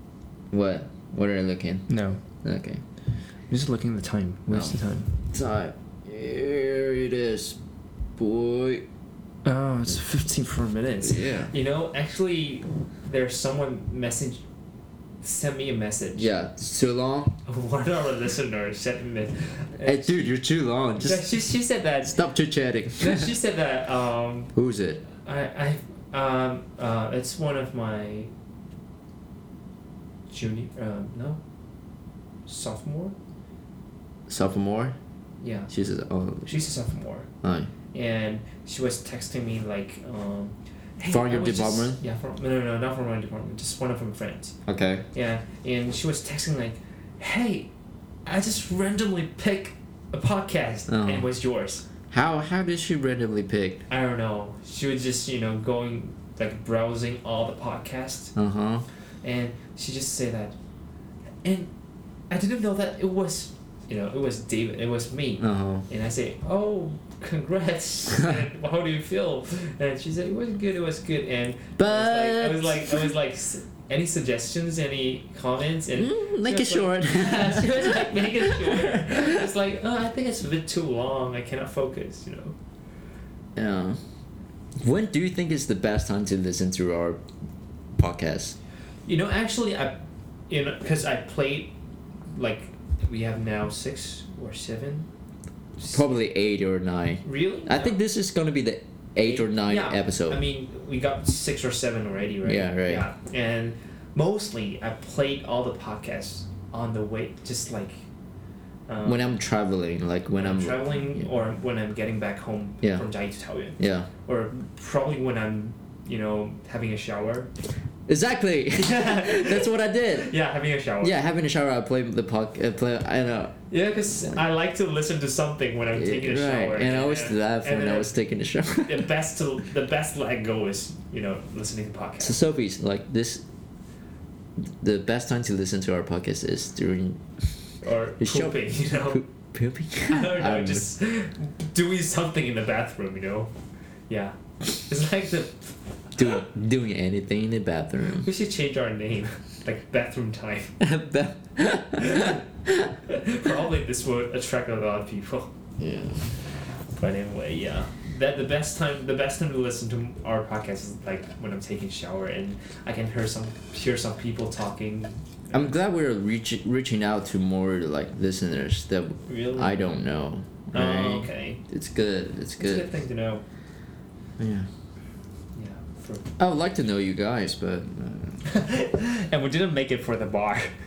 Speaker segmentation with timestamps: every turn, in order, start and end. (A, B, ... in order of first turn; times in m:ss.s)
0:00.5-0:01.9 A
0:01.9-0:02.2 B
0:02.4-0:02.8 A
0:03.5-0:05.1 B
0:04.5-0:04.8 A
0:05.3-0:07.6 A
0:08.2-0:08.8 A
0:09.4-0:14.4 B
0:11.0-0:11.5 A
0:15.2-0:16.3 B
0:16.2-0:17.3 A
0:17.4-0:20.2 B
0:19.8-0:21.3 A
0:21.0-0:22.2 B
0:22.0-0:23.3 A
0:23.0-0:24.5 B
0:24.5-0:25.0 A
0:25.1-0:28.3 B
0:30.3-0:31.4 B
0:32.5-0:33.1 B
0:34.3-0:34.9 A
0:35.4-0:35.7 B
0:35.7-0:36.5 A
0:36.4-0:37.3 B
0:37.4-0:37.7 A
0:37.9-0:44.5 B
0:41.0-0:42.0 A
0:44.6-0:45.0 A
0:45.1-0:47.7 B
0:48.2-0:51.8 B
0:50.9-0:51.3 A
0:52.1-0:53.8 A
0:53.9-0:58.3 B
0:58.3-0:58.8 A
0:59.2-1:00.5 B
1:01.4-1:01.7 B
1:02.3-1:22.6 B
1:05.4-1:05.8 A
1:11.8-1:13.1 A
1:15.9-1:19.5 A
1:23.6-1:24.0 A
1:24.8-1:27.2 A
1:28.0-1:28.5 A
1:29.0-1:31.7 B
1:32.3-1:35.1 B
1:35.9-1:40.4 A
1:37.2-1:38.0 B
1:39.2-1:48.0 B
1:42.4-1:43.1 A
1:48.9-1:49.2 B
1:49.0-1:51.3 A
1:50.3-1:57.5 B
1:52.8-1:53.1 A
1:53.8-1:54.1 A
1:58.1-2:00.3 A
1:58.8-2:01.2 B
2:01.0-2:03.5 A
2:03.7-2:08.1 B
2:05.9-2:09.1 A
2:08.8-2:12.4 B
2:12.2-2:13.4 A
2:14.6-2:17.2 A
2:17.8-2:19.2 B
2:18.2-2:20.8 A
2:20.1-2:23.5 B
2:24.1-2:25.7 B
2:26.2-2:28.3 A
2:28.2-2:30.8 B
2:30.8-2:32.9 A
2:32.0-2:32.4 B
2:33.0-2:35.5 B
2:35.8-2:36.3 A
2:37.0-2:45.7 B
2:45.5-2:52.9 A
2:49.3-2:49.8 B
2:50.7-2:51.6 B
2:52.6-2:53.4 B
2:54.4-2:54.7 A
2:55.6-2:56.2 B
2:56.4-2:58.4 A
2:58.4-3:00.7 B